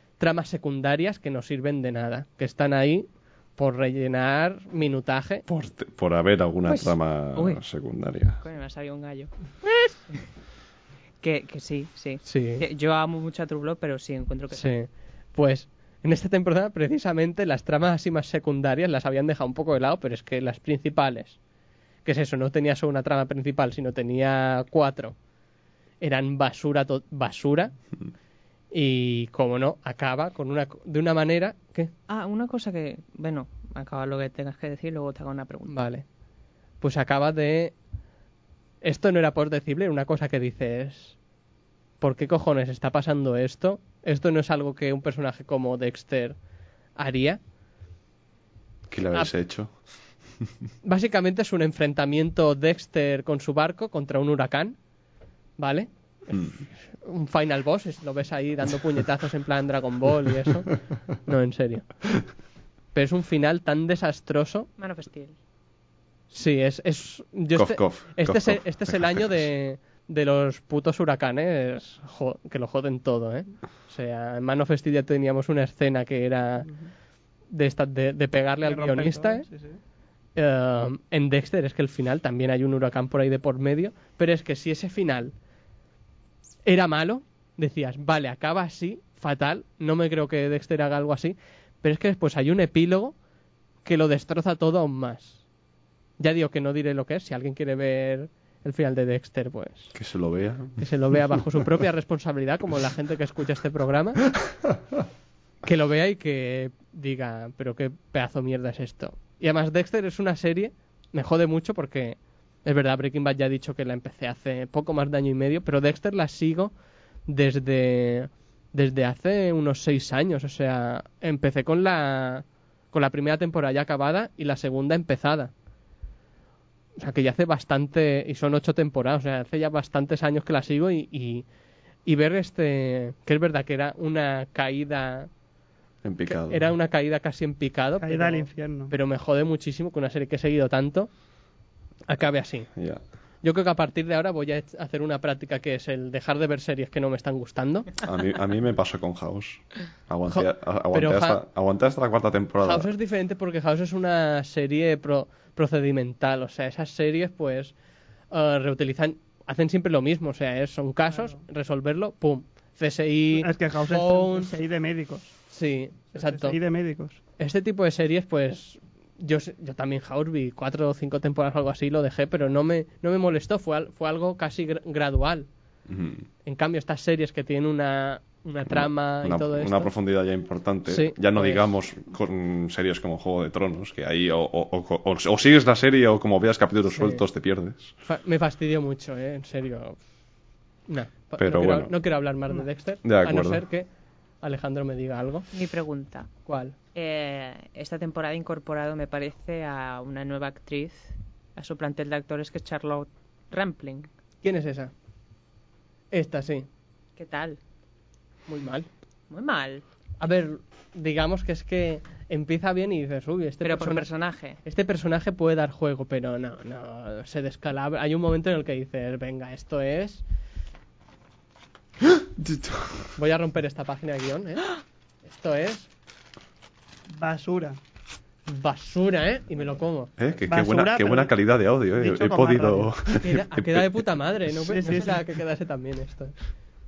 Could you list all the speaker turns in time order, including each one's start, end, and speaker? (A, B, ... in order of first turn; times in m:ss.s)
0:00.2-0:05.4 A
0:05.5-0:08.4 B
0:06.6-0:07.6 C
0:08.4-0:09.9 C
0:11.2-0:14.8 C
0:12.2-0:12.6 A
0:14.5-0:21.4 A
0:22.0-0:25.2 A
0:26.0-0:27.8 A
0:28.7-0:31.9 A
0:32.1-0:35.8 C
0:35.7-0:36.0 A
0:36.8-0:37.8 A
0:38.8-0:41.2 A
0:42.0-0:46.4 A
0:47.0-0:47.4 A
0:48.9-0:49.8 B
0:50.8-0:54.8 A
0:55.6-1:01.9 A
1:02.9-1:04.7 A
1:04.8-1:05.4 C
1:06.3-1:16.7 A
1:07.5-1:09.5 B
1:17.5-1:19.5 A
1:18.6-1:19.8 D
1:20.3-1:25.3 A
1:26.6-1:33.2 A
1:33.8-1:35.4 A
1:36.2-1:40.0 A
1:39.9-1:41.6 B
1:40.8-1:44.3 A
1:45.6-1:56.7 A
1:57.2-2:05.5 A
2:07.0-2:11.4 A
2:12.0-2:15.3 A
2:16.0-2:16.7 B
2:16.2-2:21.1 A
2:18.0-2:18.9 D
2:22.1-2:22.7 A
2:22.7-2:23.0 B
2:23.4-2:27.9 A
2:28.0-2:32.9 B
2:30.3-2:31.4 A
2:32.6-2:37.7 A
2:38.3-2:44.5 A
2:43.3-2:45.4 D
2:45.5-2:46.6 A
2:46.1-2:47.2 D
2:47.4-2:55.5 A
2:55.9-2:56.2 B
2:56.4-2:59.9 A
2:58.7-3:07.9 B
3:00.9-3:01.7 A
3:06.9-3:07.2 A
3:08.0-3:10.0 A
3:10.9-3:13.9 A
3:11.4-3:12.0 B
3:13.0-3:13.6 B
3:14.4-3:15.5 A
3:15.5-3:16.3 C
3:16.4-3:16.7 A
3:16.9-3:24.1 C
3:24.4-3:24.9 A
3:26.1-3:26.7 A
3:27.2-3:27.6 C
3:28.5-3:28.9 A
3:29.3-3:29.8 C
3:30.2-3:34.1 A
3:33.6-3:34.6 C
3:34.6-3:40.2 A
3:42.4-3:43.1 B
3:43.2-3:45.9 A
3:47.1-3:47.8 D
3:48.5-3:50.1 A
3:50.2-3:54.1 B
3:50.5-3:52.9 D
3:53.2-3:56.4 A
3:54.6-3:55.2 D